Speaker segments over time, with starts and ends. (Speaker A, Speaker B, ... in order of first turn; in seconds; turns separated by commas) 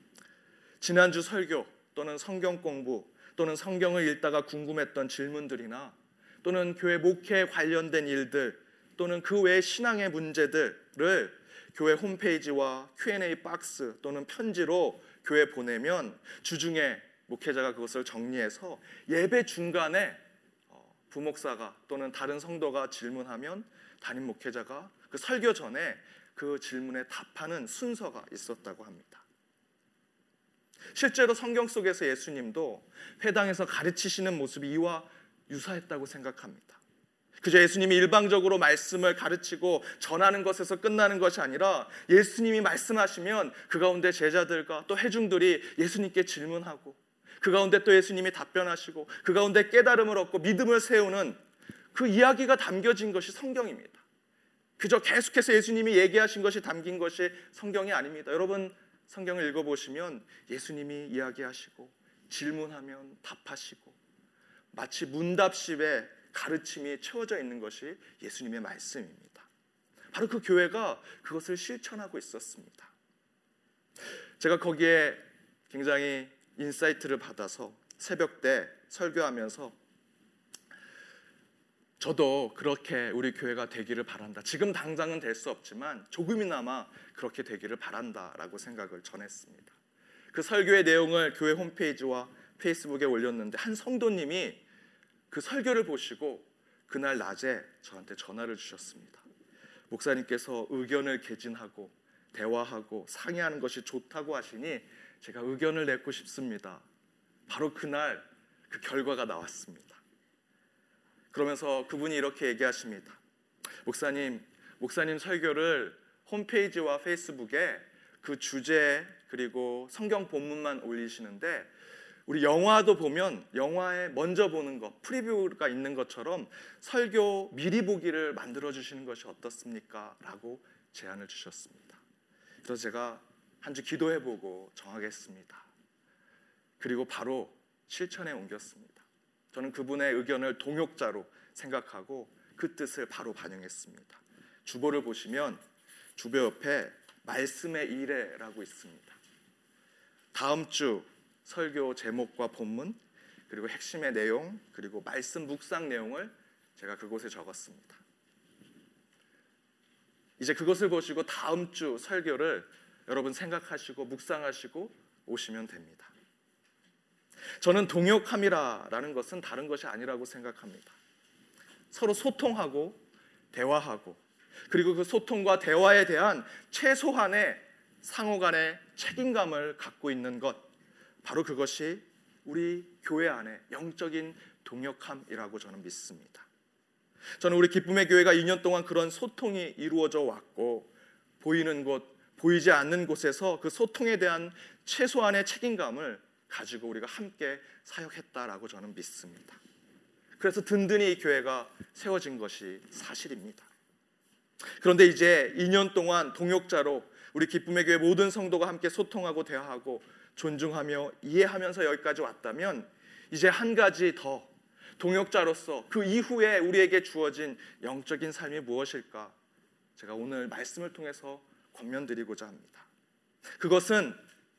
Speaker A: 0.8-29.2, Speaker A: 30.9-36.8, Speaker A: 37.4-51.4, Speaker A: 51.9-54.0, Speaker A: 54.8-64.0, Speaker A: 64.7-69.5, Speaker A: 70.1-72.9, Speaker A: 74.4-79.8, Speaker A: 82.0-89.8, Speaker A: 90.3-94.6, Speaker A: 95.3-99.2, Speaker A: 99.9-106.8, Speaker A: 107.5-110.0, Speaker A: 111.3-113.2, Speaker A: 113.8-121.7, Speaker A: 122.3-132.0, Speaker A: 132.7-135.7, Speaker A: 136.8-145.6, Speaker A: 146.2-149.2, Speaker A: 150.3-153.0, Speaker A: 153.5-158.0, Speaker A: 160.4-166.1, Speaker A: 167.6-170.9, Speaker A: 171.9-173.0, Speaker A: 173.5-180.7, Speaker A: 181.2-186.5, Speaker A: 187.4-199.6, Speaker A: 200.4-203.7, Speaker A: 204.8-219.4, Speaker A: 220.0-222.9, Speaker A: 223.6-224.2